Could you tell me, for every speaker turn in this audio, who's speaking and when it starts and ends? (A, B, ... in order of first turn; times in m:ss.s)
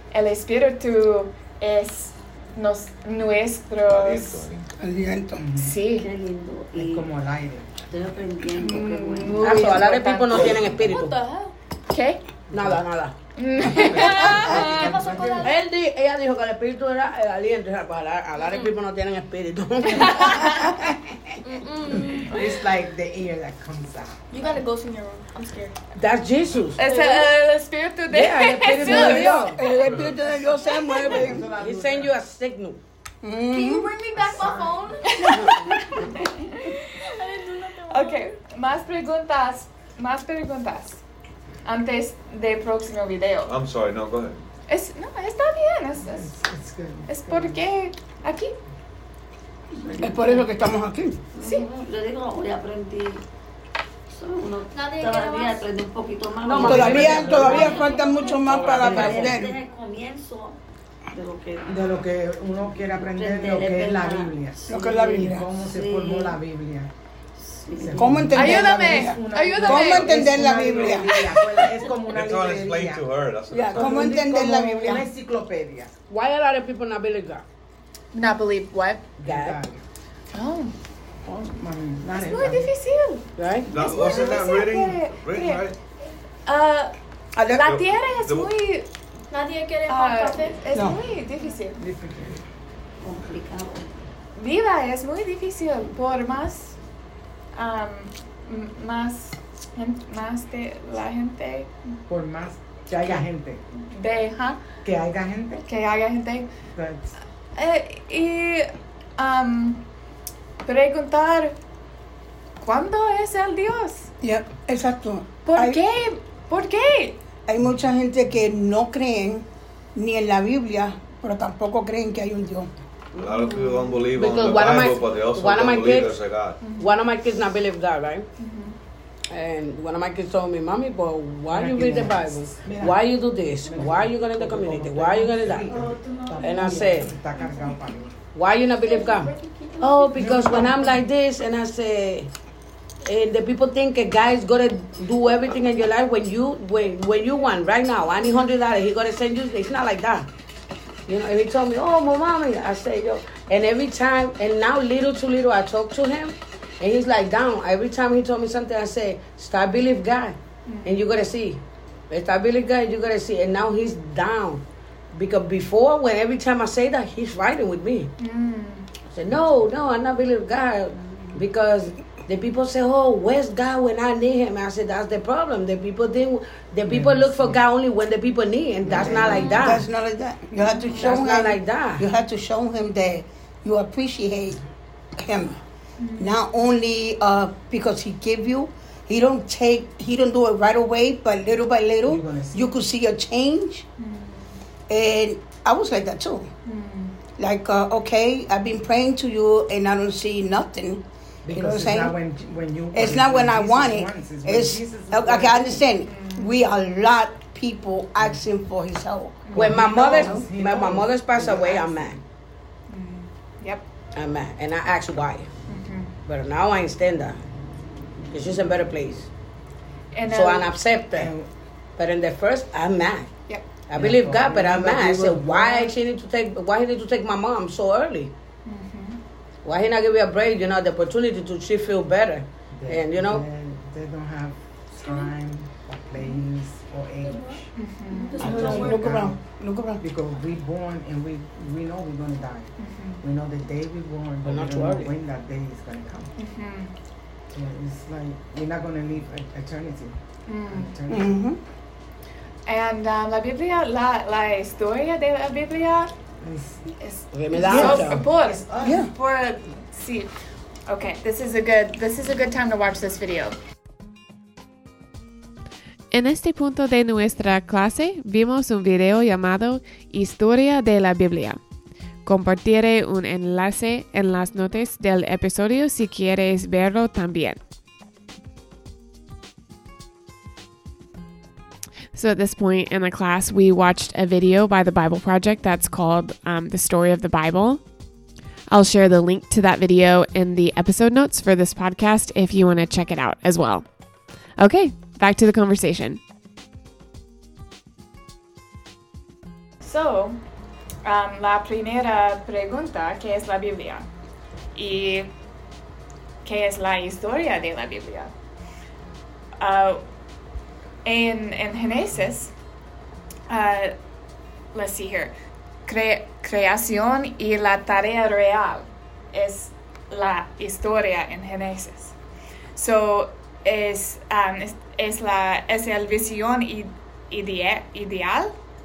0:00.1-0:04.4 A
0:03.8-0:04.7 B
0:04.8-0:05.4 C
0:05.4-0:05.8 D
0:05.6-0:06.1 A
0:05.9-0:07.1 E
0:06.7-0:07.7 D
0:07.9-0:09.6 E
0:08.5-0:10.6 A
0:09.4-0:11.1 F
0:10.3-0:10.9 B
0:10.9-0:11.5 G
0:11.9-0:12.2 A
0:12.5-0:12.8 D
0:12.5-0:13.1 F
0:13.4-0:14.9 A
0:13.7-0:14.1 B
0:13.7-0:15.5 D
0:13.9-0:15.6 G
0:15.4-0:20.6 F
0:19.9-0:20.7 A
0:21.4-0:22.7 G
0:21.9-0:24.6 D
0:24.3-0:25.8 G
0:26.0-0:26.8 F
0:26.8-0:29.5 A
0:26.8-0:27.3 G
0:28.1-0:29.6 F
0:28.8-0:31.5 C
0:31.0-0:32.1 D
0:31.5-0:32.8 F
0:33.2-0:33.9 C
0:33.5-0:36.3 G
0:34.2-0:34.8 D
0:35.0-0:37.0 A
0:37.0-0:38.4 G
0:37.9-0:41.0 A
0:41.6-0:43.5 A
0:43.4-0:44.4 B
0:44.7-0:46.3 A
0:46.0-0:47.6 D
0:47.0-0:48.5 A
0:49.8-0:50.2 B
0:50.0-0:51.2 C
0:51.3-0:53.2 E
0:51.4-0:51.7 A
0:54.1-1:00.6 E
0:54.7-0:55.7 G
0:56.4-0:57.9 F
0:56.5-0:59.5 C
0:57.0-0:57.7 D
0:57.7-0:58.5 G
0:58.5-0:59.3 F
1:01.1-1:02.0 E
1:01.7-1:06.9 D
1:02.8-1:04.4 E
1:04.6-1:05.5 C
1:05.6-1:06.4 E
1:07.4-1:08.3 E
1:07.8-1:13.0 D
1:07.9-1:11.2 C
1:08.3-1:11.2 A
1:12.0-1:14.1 B
1:13.7-1:15.1 C
1:13.7-1:15.9 D
1:16.1-1:17.4 F
1:18.1-1:19.0 A
1:19.2-1:19.8 D
1:19.2-1:19.6 F
1:20.3-1:20.7 A
1:21.2-1:22.7 D
1:22.1-1:25.6 A
1:23.4-1:23.7 F
1:23.7-1:25.8 B
1:26.4-1:26.9 A
1:27.4-1:27.7 C
1:27.5-1:28.9 A
1:27.5-1:28.5 B
1:29.3-1:30.7 G
1:29.9-1:31.8 A
1:30.7-1:31.0 C
1:31.8-1:32.4 D
1:33.0-1:33.9 E
1:34.4-1:36.8 A
1:37.5-1:41.7 A
1:42.1-1:43.6 D
1:43.9-1:44.6 A
1:44.8-1:45.6 D
1:45.6-1:46.5 A
1:46.7-1:47.1 D
1:47.5-1:49.8 A
1:50.6-1:51.5 A
1:52.6-1:54.1 A
1:54.2-1:55.8 C
1:55.4-1:57.2 A
1:57.5-2:02.7 C
2:03.2-2:06.6 B
2:03.3-2:04.0 E
2:04.1-2:06.2 F
2:06.6-2:07.0 A
2:06.7-2:08.3 F
2:08.4-2:08.8 A
2:09.3-2:15.7 F
2:11.5-2:13.0 D
2:13.6-2:18.2 D
2:15.7-2:18.0 G
2:16.4-2:17.1 F
2:18.3-2:22.3 F
2:18.7-2:21.0 G
2:20.2-2:20.8 D
2:23.0-2:30.3 F
2:31.1-2:44.6 F
2:40.6-2:41.0 A
2:45.1-2:48.1 F
2:48.2-2:48.9 A
2:49.1-2:59.8 F
2:56.9-2:57.6 D
2:58.8-2:59.8 D
2:59.3-2:59.6 E
2:59.6-3:04.6 C
3:00.9-3:02.0 F
3:05.1-3:05.6 C
3:06.0-3:06.4 A
3:06.2-3:13.8 C
3:12.0-3:12.8 D
3:14.0-3:14.5 A
3:14.9-3:16.5 C
3:16.6-3:17.1 A
3:17.4-3:22.2 C
3:21.4-3:25.8 D
3:22.9-3:30.4 C
3:26.0-3:26.6 A
3:29.4-3:29.9 A
3:29.5-3:32.2 D
3:29.5-3:32.2 F
3:32.9-3:33.8 A
3:34.1-3:35.5 F
3:35.7-3:36.1 A
3:36.2-3:37.4 F
3:38.3-3:39.3 F
3:40.1-3:40.7 A
3:40.3-3:41.3 F
3:41.1-3:41.5 D
3:42.0-3:43.3 F
3:43.9-3:48.3 F
3:43.9-3:45.9 D
3:48.6-3:49.2 A
3:49.6-3:53.4 F
3:52.8-3:57.6 D
3:55.0-3:55.3 G
3:57.2-3:59.2 G
3:57.7-3:58.7 A
3:58.4-4:00.0 C
3:58.4-3:59.4 D
4:00.0-4:06.3 D
4:02.8-4:03.2 A
4:04.4-4:05.1 F
4:06.4-4:06.9 A
4:07.5-4:10.1 D
4:10.5-4:10.9 A
4:10.7-4:11.4 D
4:11.1-4:11.6 C
4:12.6-4:16.1 A
4:16.4-4:16.8 D
4:16.9-4:20.3 A
4:17.3-4:18.2 F
4:17.6-4:18.0 C
4:17.7-4:19.0 D
4:18.8-4:19.1 C
4:20.9-4:23.6 A
4:26.1-4:31.6 H
4:32.2-4:37.6 H
4:42.1-4:47.8 H
4:48.7-4:53.8 H
4:54.6-4:56.2 H
4:59.8-5:00.4 A
5:01.0-5:04.0 A
5:04.7-5:05.3 A
5:06.4-5:08.3 A
5:09.6-5:10.0 A
5:11.0-5:12.5 A
5:13.5-5:13.9 A
5:14.7-5:15.3 A
5:15.8-5:22.1 A
5:22.8-5:28.5 A